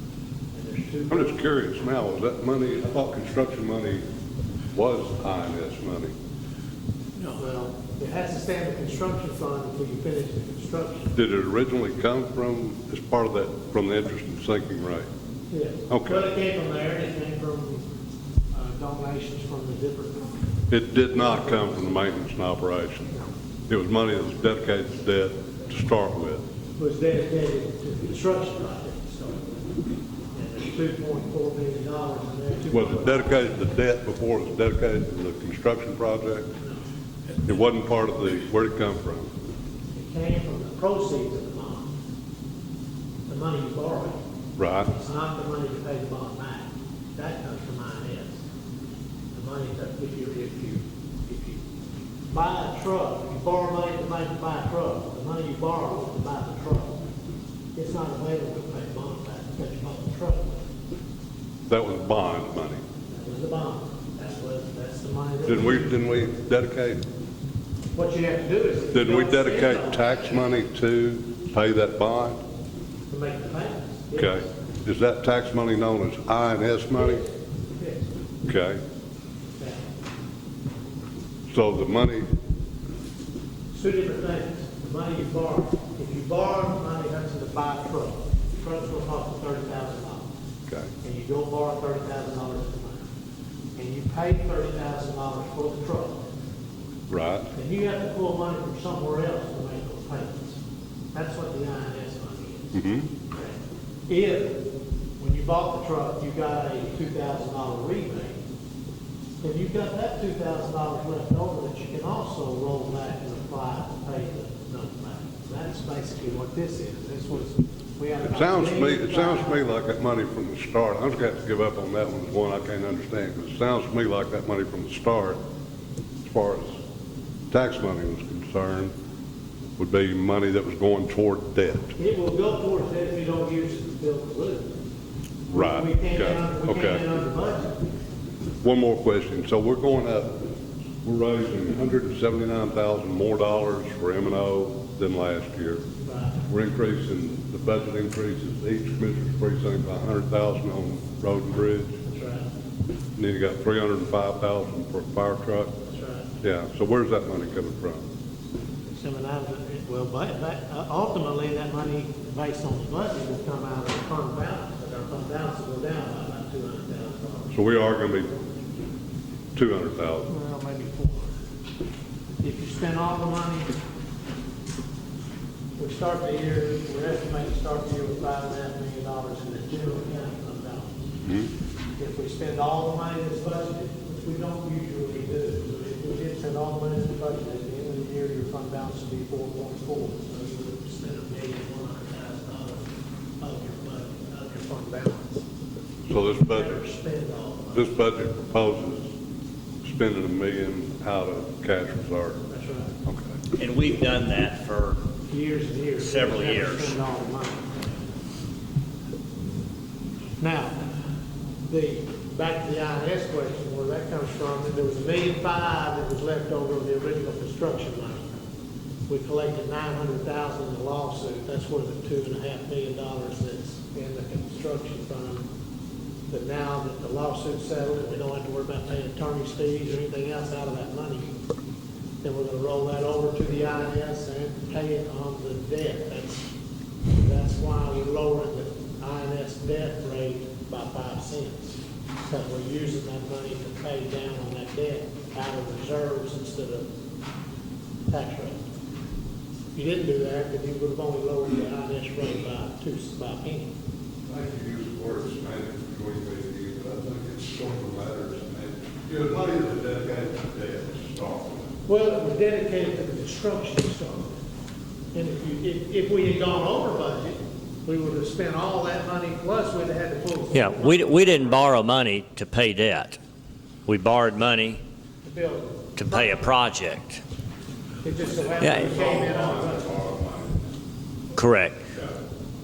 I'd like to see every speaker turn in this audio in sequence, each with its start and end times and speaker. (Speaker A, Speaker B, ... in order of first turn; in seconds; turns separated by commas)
Speaker A: 0.5-1.4, Speaker B: 1.1-4.0, Speaker B: 4.7-6.1, Speaker A: 7.2-11.2, Speaker B: 11.2-15.1, Speaker A: 15.5-17.8, Speaker B: 15.9-16.3, Speaker A: 18.5-20.3, Speaker B: 20.7-23.2, Speaker A: 21.1-22.0, Speaker B: 23.7-26.4, Speaker A: 26.8-29.4, Speaker A: 30.3-33.5, Speaker B: 32.7-36.5, Speaker B: 37.4-39.3, Speaker A: 39.9-41.9, Speaker A: 43.3-44.2, Speaker B: 44.6-44.9, Speaker A: 44.8-48.4, Speaker A: 49.3-51.6, Speaker A: 52.3-57.0, Speaker A: 57.7-60.6, Speaker B: 61.7-62.8, Speaker A: 63.1-66.0, Speaker B: 65.4-67.0, Speaker A: 67.9-70.6, Speaker B: 68.9-72.4, Speaker A: 73.1-74.5, Speaker B: 74.2-77.2, Speaker A: 76.9-78.1, Speaker B: 78.5-78.8, Speaker A: 79.6-79.9, Speaker B: 81.5-82.3, Speaker A: 83.7-90.3, Speaker A: 91.0-93.0, Speaker A: 93.8-96.2, Speaker B: 97.1-97.5, Speaker A: 97.5-100.6, Speaker A: 101.1-102.8, Speaker B: 102.7-103.1, Speaker A: 104.1-104.6, Speaker A: 105.2-108.4, Speaker A: 109.4-119.6, Speaker B: 118.2-125.4, Speaker B: 126.2-126.8, Speaker B: 127.5-128.9, Speaker B: 129.8-131.9, Speaker A: 132.0-134.7, Speaker B: 135.5-137.0, Speaker A: 135.5-137.8, Speaker B: 138.6-140.4, Speaker B: 141.0-145.8, Speaker A: 146.1-146.4, Speaker B: 146.5-151.9, Speaker A: 152.1-152.5, Speaker B: 153.2-155.8, Speaker A: 155.9-156.3, Speaker B: 156.4-158.1, Speaker A: 158.9-167.5, Speaker B: 167.5-168.5, Speaker B: 169.6-170.3, Speaker A: 170.3-171.3, Speaker A: 172.4-173.7, Speaker A: 175.8-180.9, Speaker A: 182.0-192.9, Speaker A: 193.4-195.4, Speaker B: 196.1-196.8, Speaker A: 196.4-197.9, Speaker B: 197.7-199.1, Speaker B: 199.8-202.4, Speaker A: 202.5-202.9, Speaker B: 203.1-203.4, Speaker C: 203.6-205.0, Speaker A: 205.3-207.7, Speaker C: 206.0-207.0, Speaker A: 210.4-210.8, Speaker A: 211.7-218.3, Speaker A: 219.1-225.4, Speaker A: 226.3-231.3, Speaker A: 232.2-236.4, Speaker A: 237.2-246.9, Speaker A: 248.1-248.6, Speaker A: 249.8-253.7, Speaker B: 254.3-261.7, Speaker A: 261.9-264.3, Speaker A: 265.1-271.6, Speaker C: 270.5-273.2, Speaker C: 273.9-274.8, Speaker A: 275.2-276.5, Speaker C: 275.9-277.2, Speaker A: 278.0-279.9, Speaker B: 278.3-280.6, Speaker C: 278.6-278.9, Speaker C: 281.4-281.9